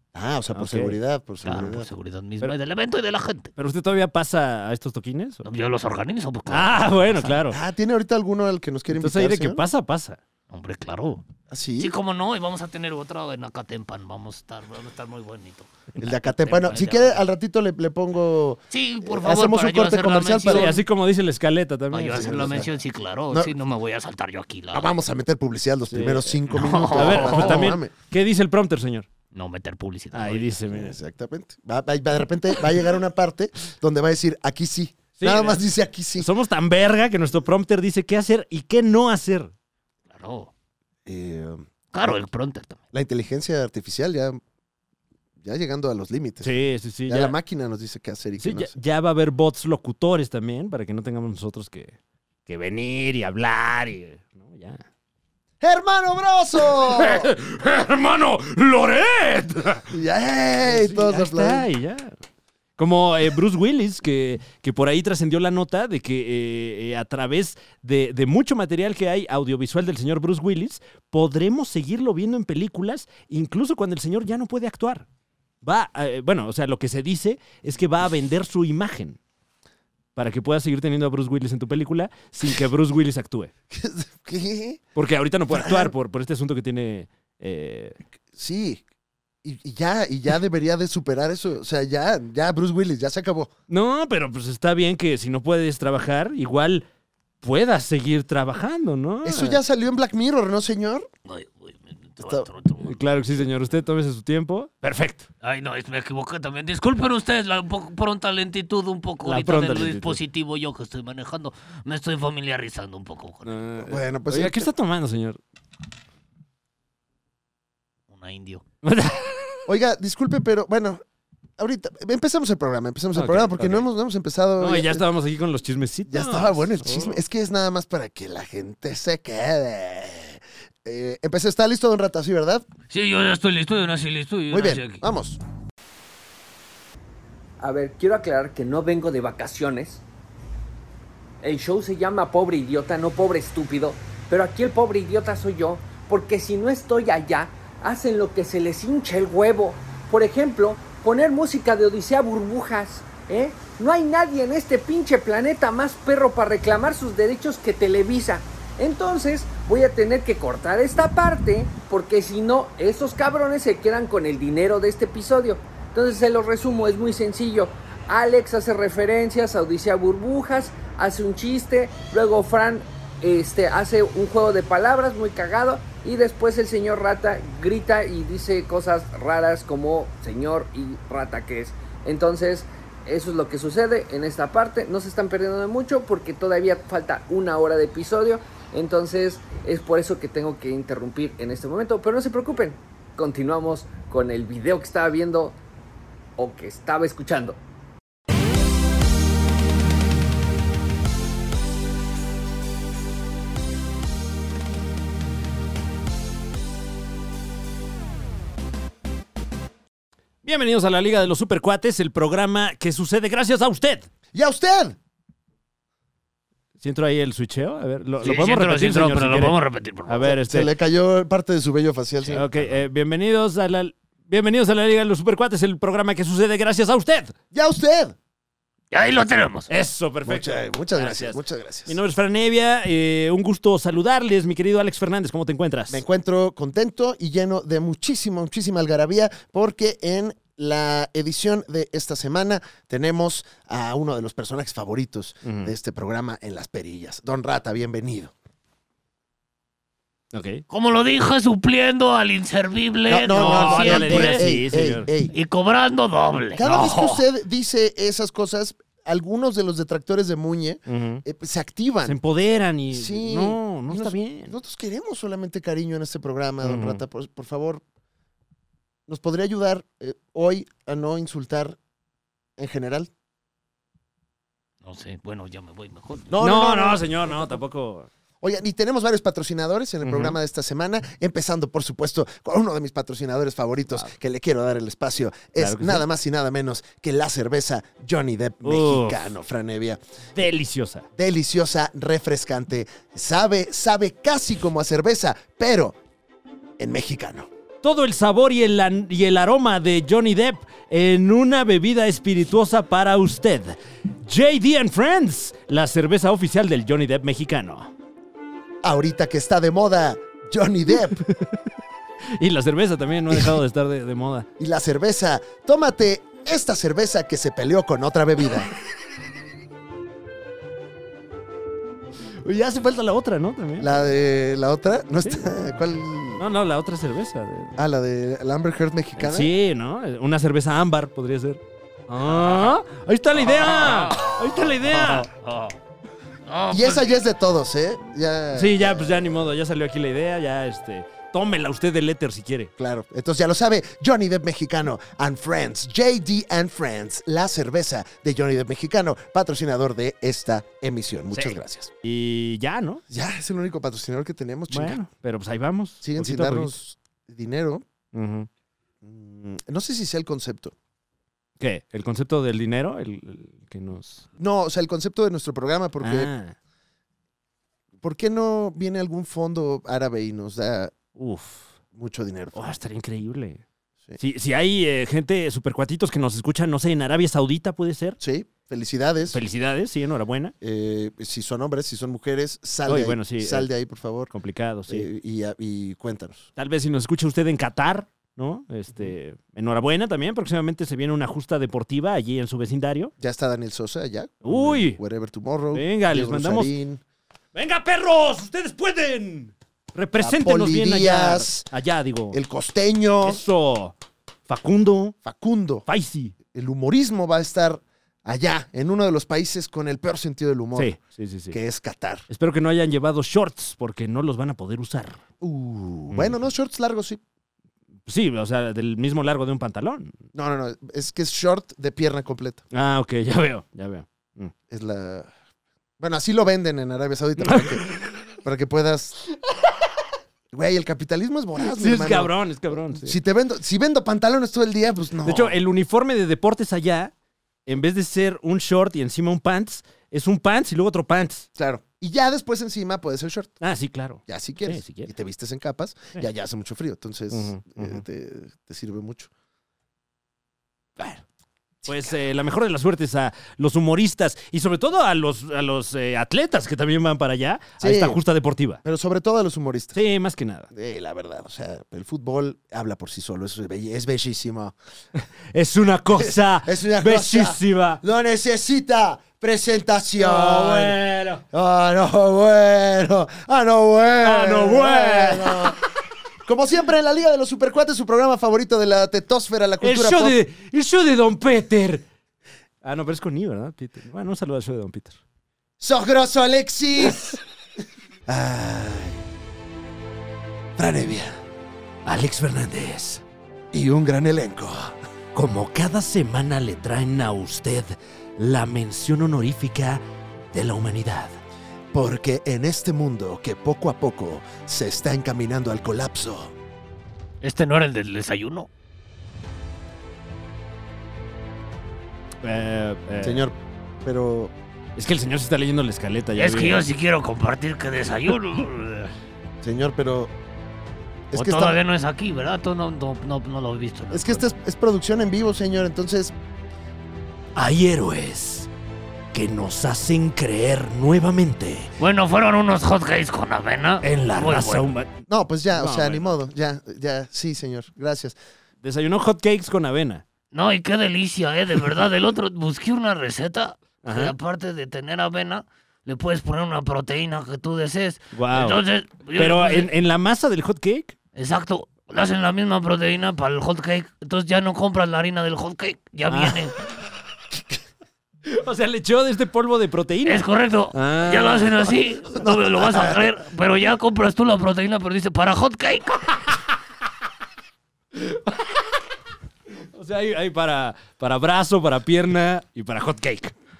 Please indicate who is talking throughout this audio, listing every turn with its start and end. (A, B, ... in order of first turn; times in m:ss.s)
0:00.1-0:01.9 A
0:00.5-0:01.0 B
0:01.4-0:03.5 C
0:03.6-0:05.4 B
0:05.4-0:07.3 C
0:06.5-0:07.6 B
0:07.4-0:09.6 A
0:08.9-0:10.2 B
0:10.5-0:11.2 C
0:11.5-0:11.9 A
0:11.8-0:17.2 C
0:16.0-0:20.8 A
0:18.7-0:20.8 C
0:20.5-0:22.6 B
0:21.9-0:24.9 C
0:22.1-0:22.7 A
0:24.7-0:27.9 A
0:25.9-0:29.1 B
0:26.5-0:27.7 C
0:29.3-0:30.5 C
0:30.1-0:30.9 B
0:30.7-0:36.3 A
0:35.2-0:35.6 B
0:36.2-0:39.5 B
0:40.1-0:40.5 C
0:41.0-0:41.7 A
0:41.9-0:42.8 C
0:42.9-0:44.4 A
0:45.4-0:46.5 A
0:46.4-0:47.4 B
0:47.1-0:48.7 A
0:48.4-0:54.8 B
0:55.6-0:57.3 A
0:56.8-0:59.9 B
0:59.9-1:01.7 A
1:00.6-1:02.2 B
1:02.8-1:15.0 B
1:15.6-1:19.2 B
1:20.2-1:23.5 B
1:23.7-1:24.8 A
1:25.0-1:28.0 B
1:25.5-1:25.9 A
1:28.3-1:28.8 A
1:29.4-1:33.5 A
1:33.7-1:36.8 B
1:37.4-1:39.6 B
1:39.2-1:41.1 A
1:41.2-1:43.0 C
1:42.2-1:42.5 A
1:42.8-1:45.3 B
1:45.4-1:53.5 C
1:49.2-1:50.2 B
1:53.4-1:55.4 B
1:53.8-1:54.7 A
1:58.1-1:58.6 C
1:58.8-1:59.7 B
1:59.7-2:01.0 A
2:01.6-2:05.0 A
2:03.1-2:03.8 B
2:04.6-2:07.2 B
2:06.1-2:12.6 A
2:12.9-2:15.0 C
2:14.5-2:15.4 A
2:17.6-2:20.0 D
2:21.4-3:15.6 D
3:16.4-3:17.6 D
3:30.4-3:34.1 B
3:34.3-3:35.0 A
3:36.8-3:40.7 B
3:38.2-3:40.3 C
3:40.2-3:42.5 A
3:42.2-3:47.3 B
3:47.5-3:48.2 A
3:48.9-3:49.7 C
3:49.7-3:56.0 B
3:50.2-3:52.0 A
3:55.9-4:08.3 A
4:05.4-4:05.7 B
4:10.3-4:10.6 B
4:10.7-4:14.6 C
4:13.1-4:15.3 A
4:13.3-4:15.1 B
4:15.3-4:17.2 C
4:16.6-4:22.2 A
4:20.9-4:21.2 B
4:22.0-4:24.5 B
4:22.9-4:27.8 A
4:26.6-4:27.0 B
4:29.1-4:31.8 A
4:32.6-4:33.1 A
4:34.8-4:36.3 C
4:36.3-4:37.5 A
4:36.4-4:38.1 B
4:38.4-4:50.0 A
4:40.0-4:40.4 B
4:45.6-4:46.0 B
4:48.6-4:49.3 B
4:50.3-4:51.0 B
4:51.1-4:56.0 A
4:56.8-4:57.5 A
4:57.8-5:07.9 B
5:08.8-5:11.2 A
5:10.9-5:11.7 B
5:12.4-5:14.5 B
5:13.3-5:13.6 A
5:14.6-5:18.7 A
5:22.4-5:23.9 B
5:23.8-5:26.4 A
5:26.4-5:27.8 B
5:27.8-5:29.5 A
5:29.2-5:35.3 B
5:32.4-5:32.7 C
5:33.4-5:35.7 C
5:36.4-5:37.2 C
5:36.7-5:39.5 A
5:38.5-5:42.7 B
5:42.8-5:51.9 A
5:51.3-5:53.0 B
5:53.1-5:55.0 A
5:54.7-5:56.8 B
5:56.0-5:57.8 A
5:58.1-5:58.5 B
5:59.0-6:00.7 A
6:01.6-6:04.2 B
6:04.4-6:06.3 A
6:06.0-6:06.6 B
6:08.0-6:10.9 A
6:11.2-6:11.7 B
6:11.9-6:12.7 A
6:12.5-6:13.6 B
6:14.2-6:18.2 B
6:18.2-6:19.4 A
6:19.3-6:20.5 B
6:20.6-6:24.3 A
6:22.8-6:23.7 B
6:24.3-6:25.1 B
6:24.9-6:26.5 A
6:26.6-6:33.1 B
6:33.2-6:37.0 A
6:34.4-6:35.0 B
6:35.7-6:36.7 B
6:37.5-6:42.4 B
6:40.2-6:41.7 A
6:42.3-6:43.4 A
6:43.2-6:43.9 B
6:44.5-6:45.2 B
6:45.2-6:45.8 A
6:45.8-6:46.3 B
6:46.5-6:50.9 A
6:50.7-6:51.6 B
6:51.5-6:52.2 A
6:52.3-6:55.2 B
6:55.4-6:57.2 A
6:56.1-6:56.4 B
6:58.1-7:00.2 B
7:00.3-7:02.6 A
7:02.7-7:04.5 B
7:04.7-7:05.3 A
7:06.0-7:07.9 A
7:07.4-7:08.2 B
7:08.4-7:09.2 A
7:10.5-7:12.3 A
7:11.6-7:13.1 B
7:12.9-7:15.5 A
7:15.2-7:17.1 B
7:17.6-7:21.5 B
7:21.6-7:23.6 A
7:23.6-7:25.1 B
7:24.3-7:29.3 A
7:27.3-7:28.0 B
7:31.8-7:32.2 A
7:31.9-7:38.8 B
7:37.8-7:38.2 A
7:38.8-7:40.0 A
7:39.9-7:40.7 B
7:40.7-7:44.7 A
7:45.5-7:48.0 B
7:46.1-7:51.0 A
7:50.2-7:51.4 B
7:51.5-7:55.8 A
7:54.2-7:55.7 B
7:56.4-8:00.4 A
7:59.8-8:02.0 B
8:02.8-8:05.2 B
8:05.8-8:07.4 A
8:08.2-8:09.2 A
8:10.8-8:11.4 A
8:12.0-8:13.2 B
8:13.7-8:15.0 A
8:15.3-8:21.4 B
8:21.9-8:26.5 A
8:27.4-8:28.7 C
8:32.4-8:33.4 B
8:33.2-8:34.5 A
8:35.0-8:36.8 B
8:36.4-8:39.1 C
8:39.6-8:40.3 A
8:41.3-8:41.8 A
8:41.3-8:44.4 C
8:44.1-8:46.3 A
8:47.5-8:48.7 B
8:49.3-8:51.9 B
8:52.0-8:54.9 C
8:54.0-8:55.2 B
8:55.3-8:58.4 A
8:55.7-8:56.3 B
8:58.8-9:00.2 B
9:00.5-9:09.9 C
9:04.0-9:04.3 B
9:08.3-9:08.8 B
9:09.4-9:11.2 B
9:11.4-9:16.8 C
9:16.3-9:16.6 B
9:18.4-9:21.9 B
9:20.2-9:26.4 C
9:28.1-9:28.8 B
9:29.9-9:33.5 B